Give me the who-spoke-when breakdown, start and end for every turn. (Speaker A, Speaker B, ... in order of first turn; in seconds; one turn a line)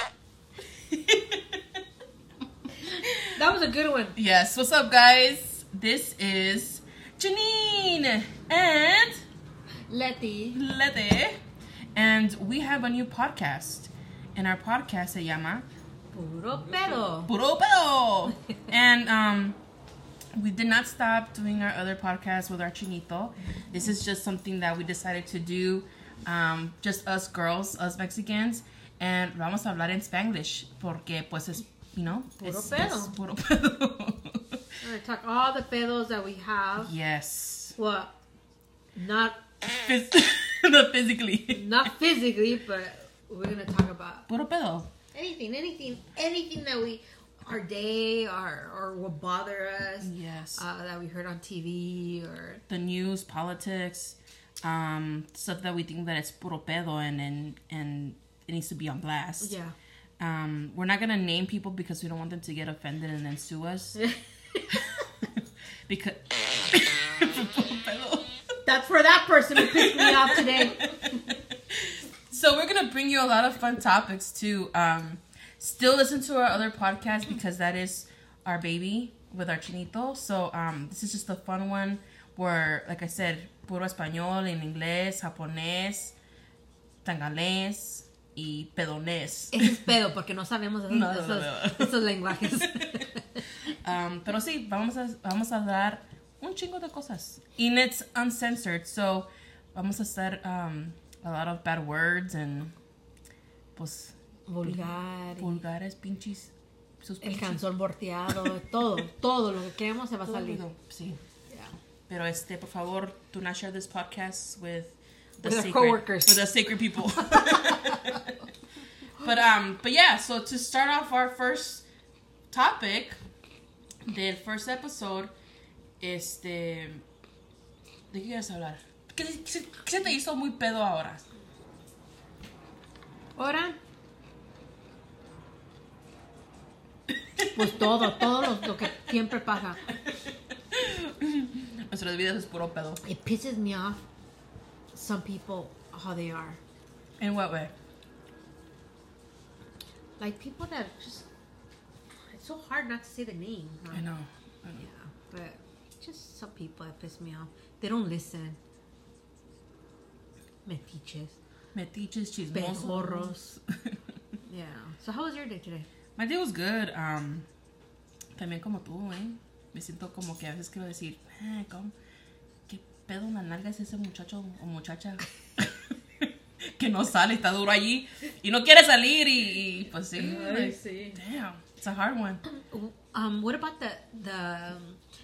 Speaker A: 0.9-1.6
Speaker A: 2.9-3.3
Speaker B: 3.4-4.2
Speaker A: 4.2-9.2
Speaker B: 9.9-10.6
Speaker A: 10.5-11.4
Speaker A: 11.9-15.7
Speaker B: 16.1-17.3
Speaker A: 17.2-19.6
Speaker A: 20.4-34.6
Speaker B: 32.4-33.1
Speaker B: 34.8-36.9
Speaker A: 36.8-37.8
Speaker B: 37.8-38.1
Speaker B: 39.0-39.4
Speaker A: 39.6-41.9
Speaker B: 41.5-44.3
Speaker A: 44.3-44.9
Speaker B: 45.1-52.6
Speaker A: 50.0-50.6
Speaker A: 52.7-59.5
Speaker B: 59.4-59.7
Speaker A: 60.2-64.0
Speaker B: 64.0-64.6
Speaker A: 65.4-68.3
Speaker B: 68.7-70.8
Speaker A: 69.6-86.2
Speaker A: 87.0-89.8
Speaker B: 89.5-93.4
Speaker A: 90.9-93.1
Speaker A: 93.7-102.8
Speaker A: 103.8-107.6
Speaker B: 104.5-105.6
Speaker B: 107.2-110.6
Speaker A: 110.2-111.2
Speaker A: 112.1-118.5
Speaker B: 115.4-116.5
Speaker B: 117.2-118.2
Speaker A: 119.2-121.9
Speaker A: 122.5-123.2
Speaker A: 124.0-125.3
Speaker A: 126.0-127.0
Speaker A: 128.1-131.2
Speaker B: 133.4-133.8
Speaker A: 137.4-139.1
Speaker B: 137.5-139.8
Speaker A: 139.9-140.2
Speaker A: 140.7-143.0
Speaker B: 143.0-144.0
Speaker B: 144.9-146.6
Speaker A: 147.2-147.7
Speaker B: 150.2-151.3
Speaker B: 152.3-154.1
Speaker A: 153.9-154.9
Speaker B: 154.8-158.6
Speaker B: 160.7-161.4
Speaker A: 161.7-164.0
Speaker B: 162.5-163.4
Speaker B: 164.5-165.9
Speaker A: 166.2-167.5
Speaker A: 168.4-171.9
Speaker A: 172.7-182.4
Speaker B: 180.1-181.2
Speaker B: 182.5-185.0